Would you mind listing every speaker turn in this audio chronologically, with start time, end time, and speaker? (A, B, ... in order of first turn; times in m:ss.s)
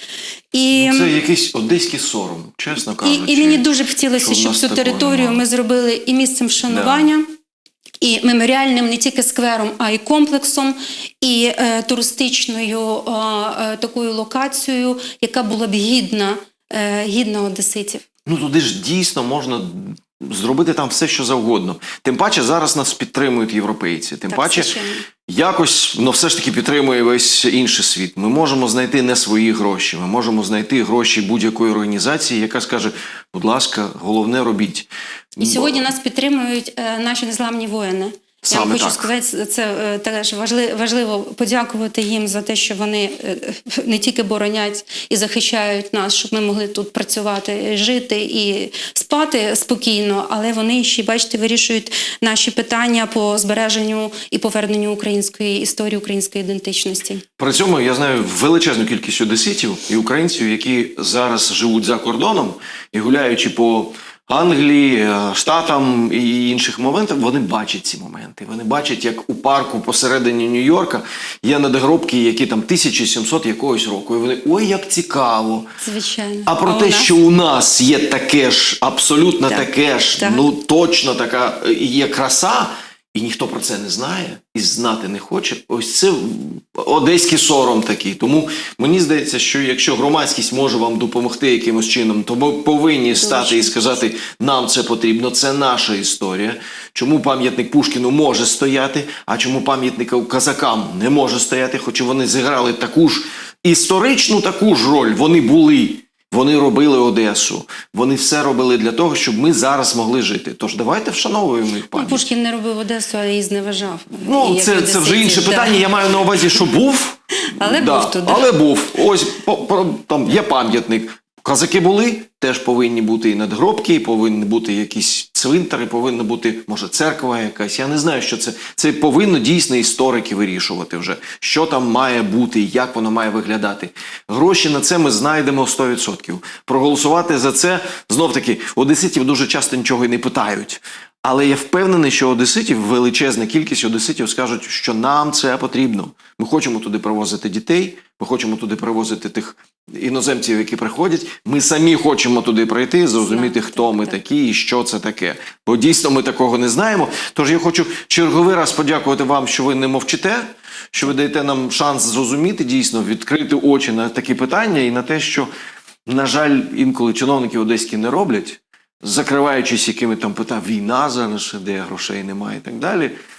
0:00.5-0:01.2 A
0:00.7-0:05.4 B
0:03.0-0:07.3 A
0:06.7-0:07.1 B
0:08.0-0:18.0 A
0:18.3-0:24.7 B
0:24.3-0:25.1 A
0:25.3-0:35.9 B
0:35.4-0:57.2 A
0:38.5-0:39.1 B
0:57.4-1:15.7 B
1:15.8-1:17.2 A
1:16.5-1:52.2 B
1:19.4-1:20.5 A
1:33.1-1:34.0 A
1:51.9-1:55.9 A
1:54.1-2:45.5 B
1:57.4-1:58.4 A
2:33.2-2:34.2 A
2:46.1-2:53.1 B